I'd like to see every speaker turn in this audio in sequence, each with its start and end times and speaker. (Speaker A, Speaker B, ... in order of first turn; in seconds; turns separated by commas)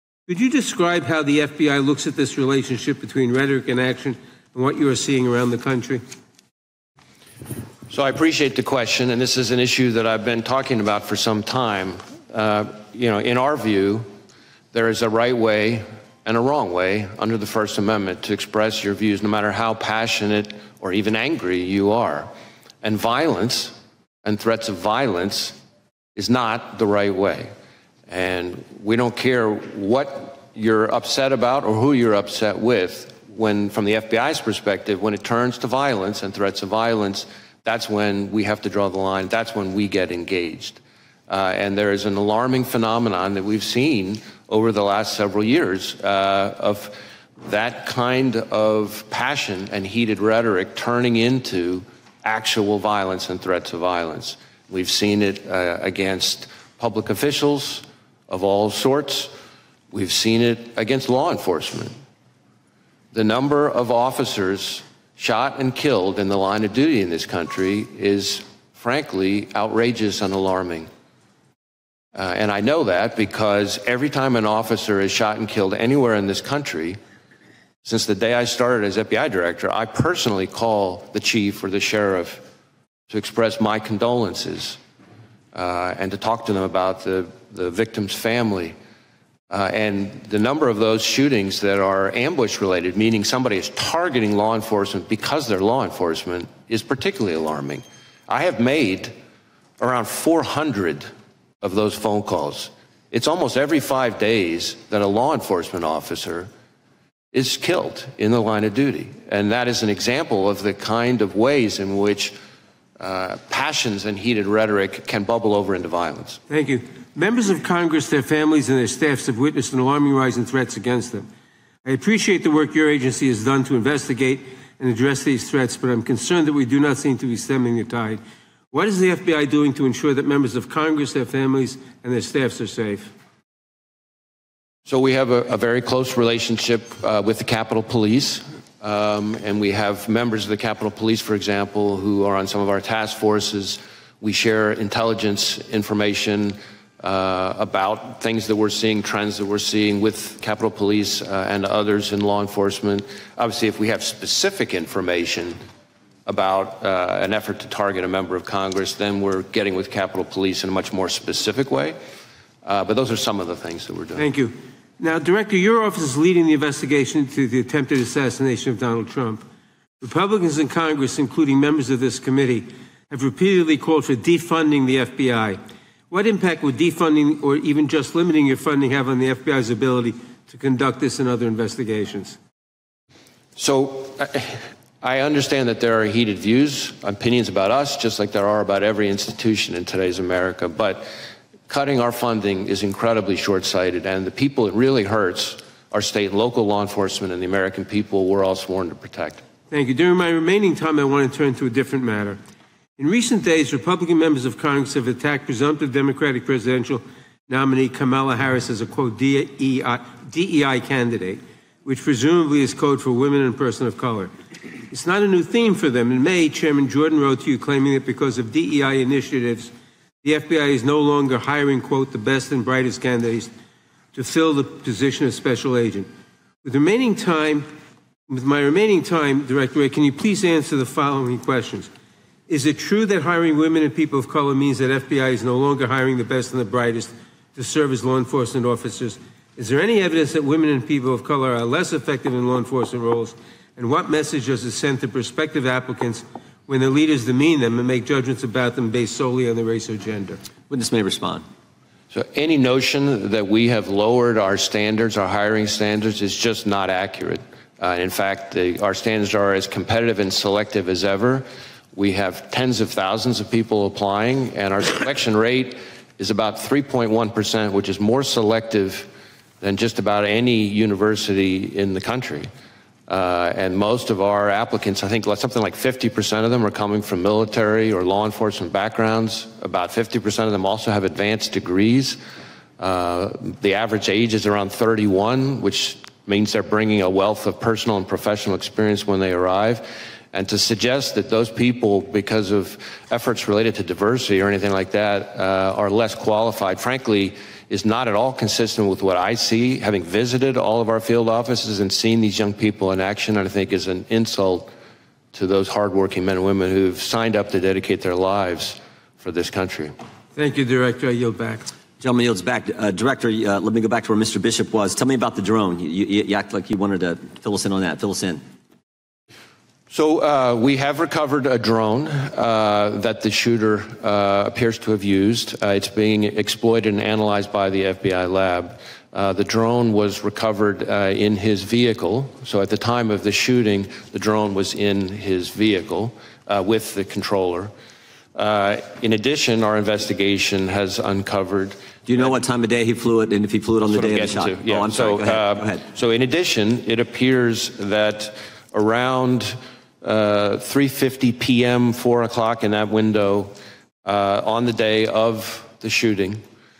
Speaker A: 0.3-6.0, Speaker B: 7.9-14.0, Speaker B: 14.7-22.3, Speaker B: 22.8-25.6, Speaker B: 26.1-27.5, Speaker B: 28.1-59.3, Speaker B: 59.9-61.9, Speaker B: 63.1-70.9, Speaker B: 72.2-77.0, Speaker B: 77.8-82.4, Speaker B: 83.1-84.8, Speaker B: 85.5-88.8, Speaker B: 89.5-99.1, Speaker B: 99.8-101.1, Speaker B: 101.6-106.5, Speaker B: 107.3-112.3, Speaker B: 113.0-116.4, Speaker A: 116.5-121.3, Speaker A: 121.8-133.1, Speaker B: 134.9-155.6, Speaker B: 156.2-162.0, Speaker B: 162.7-164.3, Speaker A: 164.2-169.4, Speaker A: 170.0-175.6, Speaker A: 176.1-182.4, Speaker B: 183.6-191.1, Speaker B: 191.7-199.4, Speaker A: 199.7-202.4, Speaker A: 203.0-214.3, Speaker A: 214.9-219.7, Speaker A: 220.2-223.5, Speaker A: 224.1-226.1, Speaker A: 226.6-227.7, Speaker A: 228.3-231.9, Speaker A: 232.5-250.4, Speaker C: 250.7-251.4, Speaker B: 252.1-269.1, Speaker B: 269.6-272.5, Speaker B: 273.1-282.2, Speaker B: 282.8-304.7, Speaker B: 305.3-309.9, Speaker A: 310.4-311.7, Speaker C: 312.0-318.4, Speaker B: 319.9-337.7, Speaker B: 338.4-342.3, Speaker C: 342.1-345.8, Speaker B: 343.9-353.5, Speaker B: 354.1-356.4